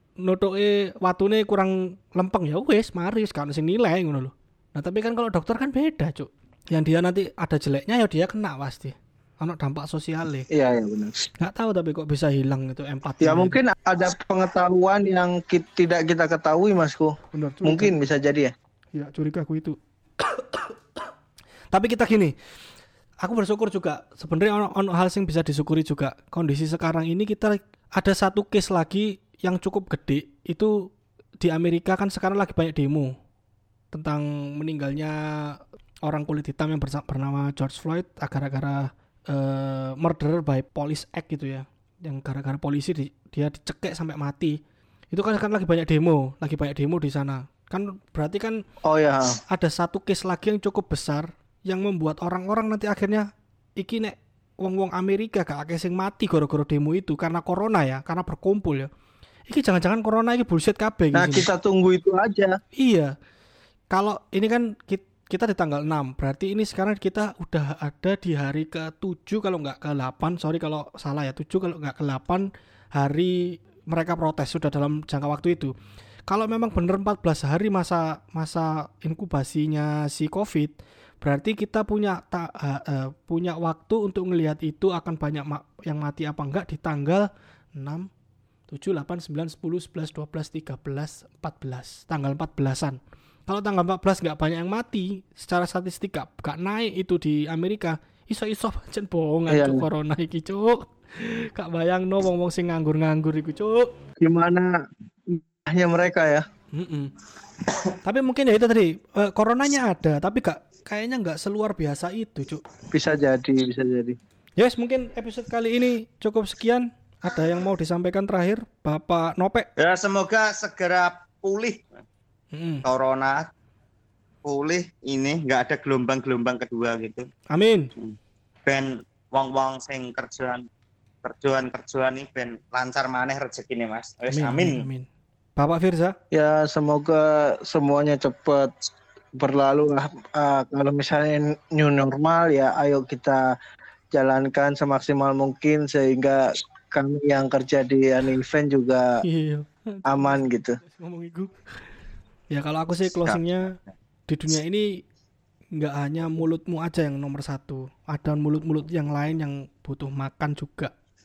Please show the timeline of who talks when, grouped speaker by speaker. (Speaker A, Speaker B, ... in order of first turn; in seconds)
Speaker A: 0.2-10.5, 11.4-13.6, 17.3-17.9, 18.9-20.8, 21.7-22.4, 23.2-30.9, 31.4-33.1, 33.9-44.6, 45.1-48.6, 49.5-58.9, 59.5-61.5, 62.8-63.1, 63.9-75.7, 76.3-88.1, 88.7-103.9, 106.7-107.1, 108.0-112.6, 114.6-119.7, 122.5-122.8, 127.5-127.9, 134.3-136.2, 149.2-151.5, 152.5-155.0, 155.8-160.9
Speaker B: 10.5-11.1, 13.2-18.5, 48.9-49.4, 61.1-62.6, 99.5-99.9, 104.2-106.4, 112.9-114.2, 136.3-143.6, 144.1-149.2, 150.1-150.8
Speaker C: 119.8-121.9, 122.8-123.4, 124.4-127.3, 128.7-130.6, 131.2-134.8